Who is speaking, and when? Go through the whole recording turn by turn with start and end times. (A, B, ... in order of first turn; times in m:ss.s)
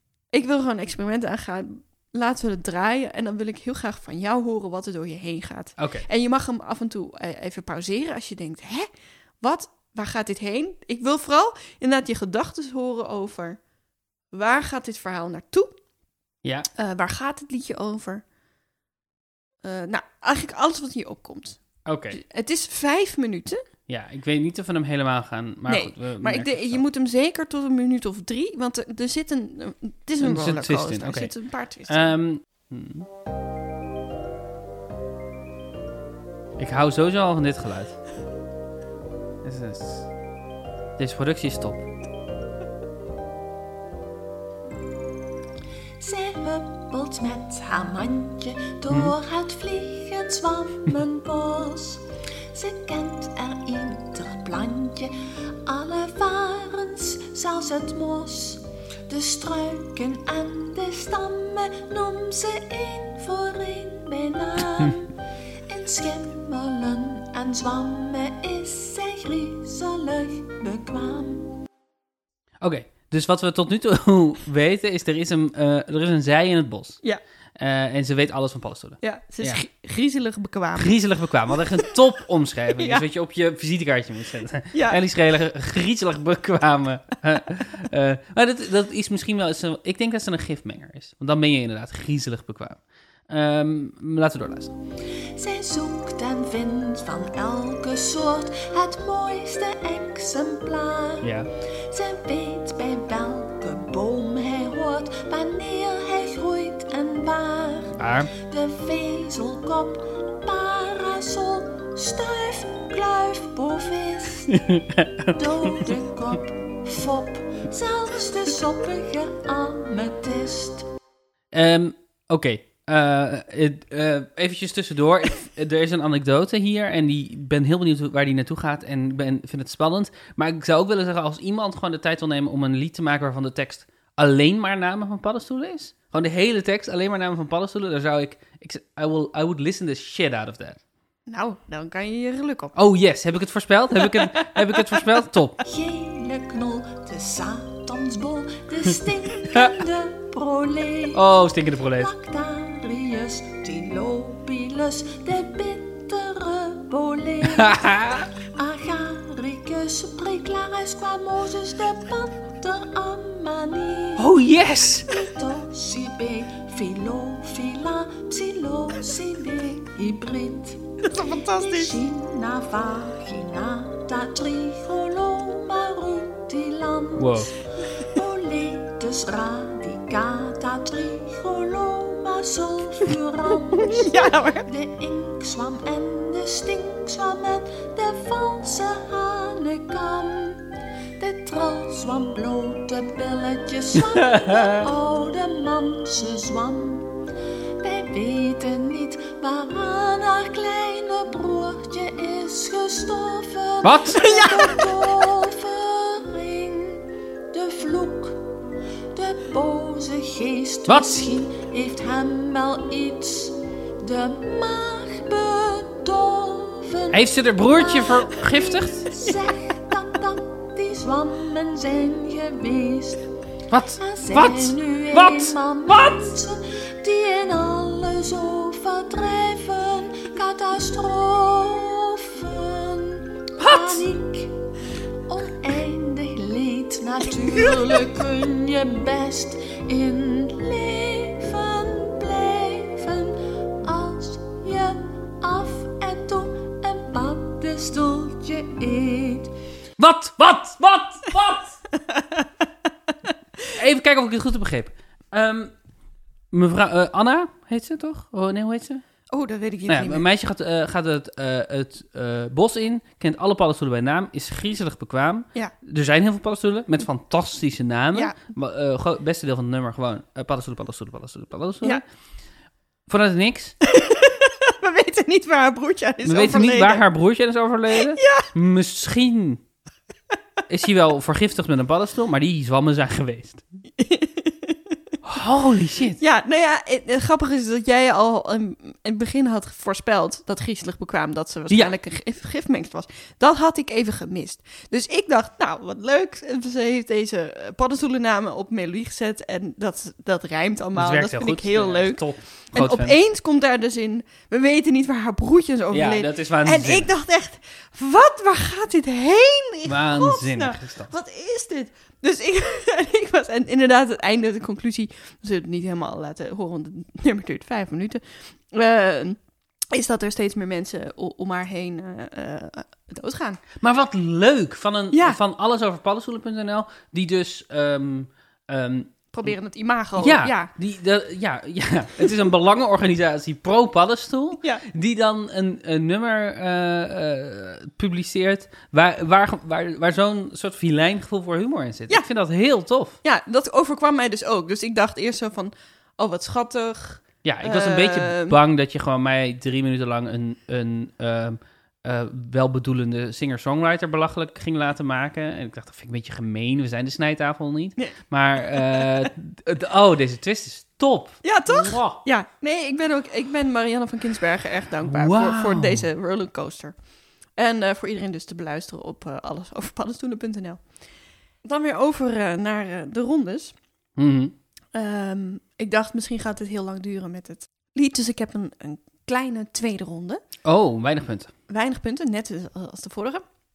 0:00.3-0:08.9 A
0:05.8-0:06.1 B
0:09.4-0:13.6 A
0:14.3-0:15.7 A
0:16.4-0:16.7 B
0:16.8-0:18.2 A
0:19.6-0:23.6 A
0:21.8-0:22.2 B
0:23.9-0:26.8 B
0:25.7-0:32.2 A
0:30.2-0:31.3 B
0:31.8-0:33.1 B
0:36.6-0:38.0 B
0:39.4-0:40.1 B
0:41.0-0:41.8 B
0:46.0-1:11.6 C
0:48.9-0:49.1 B
1:12.6-1:17.0 B
1:17.6-1:19.6 B
1:19.0-1:21.0 A
1:20.8-1:34.7 B
1:22.8-1:23.0 A
1:24.7-1:25.0 A
1:35.3-1:41.3 C
1:41.2-1:41.5 B
1:41.9-1:54.6 C
1:48.0-1:48.3 B
1:54.5-1:55.8 B
1:55.3-2:00.9 C
2:01.5-2:20.8 B
2:21.3-2:22.7 A
2:22.7-2:25.6 B
2:25.6-2:31.2 C
2:31.1-2:32.1 B
2:31.9-2:44.3 C
2:37.5-2:38.3 B
2:44.2-2:45.1 B
2:45.1-3:17.2 C
2:51.0-2:52.0 A
2:57.2-2:57.5 B
3:03.7-3:04.7 A
3:14.0-3:14.8 B
3:17.8-3:28.4 C
3:23.8-3:24.4 B
3:24.2-3:24.9 A
3:29.1-3:43.2 C
3:30.9-3:31.3 B
3:37.1-3:39.1 B
3:43.7-3:46.3 B
3:44.0-3:54.6 C
3:53.6-3:54.1 B
3:55.3-4:09.5 C
4:10.0-4:11.8 B
4:11.9-4:12.5 A
4:13.7-4:15.8 B
4:16.5-4:19.0 B
4:19.3-4:20.2 A
4:19.9-4:32.0 B
4:33.1-4:33.8 B
4:33.8-4:37.0 A
4:36.2-4:39.6 B
4:38.0-4:38.5 A
4:40.7-4:43.6 B
4:44.0-4:45.0 A
4:45.2-4:46.2 B
4:46.2-5:23.6 A
5:00.9-5:03.2 B
5:05.9-5:07.1 B
5:09.8-5:11.1 B
5:23.8-5:29.5 B
5:25.1-5:25.4 A
5:29.3-5:30.7 A
5:30.2-5:43.2 B
5:43.2-5:48.6 A
5:47.4-6:02.2 B
5:58.7-5:59.2 A
6:01.4-6:11.0 A
6:05.0-6:06.1 B
6:11.6-6:13.7 A
6:14.2-6:14.6 B
6:14.9-6:20.4 A
6:20.6-6:21.5 B
6:21.7-6:23.4 A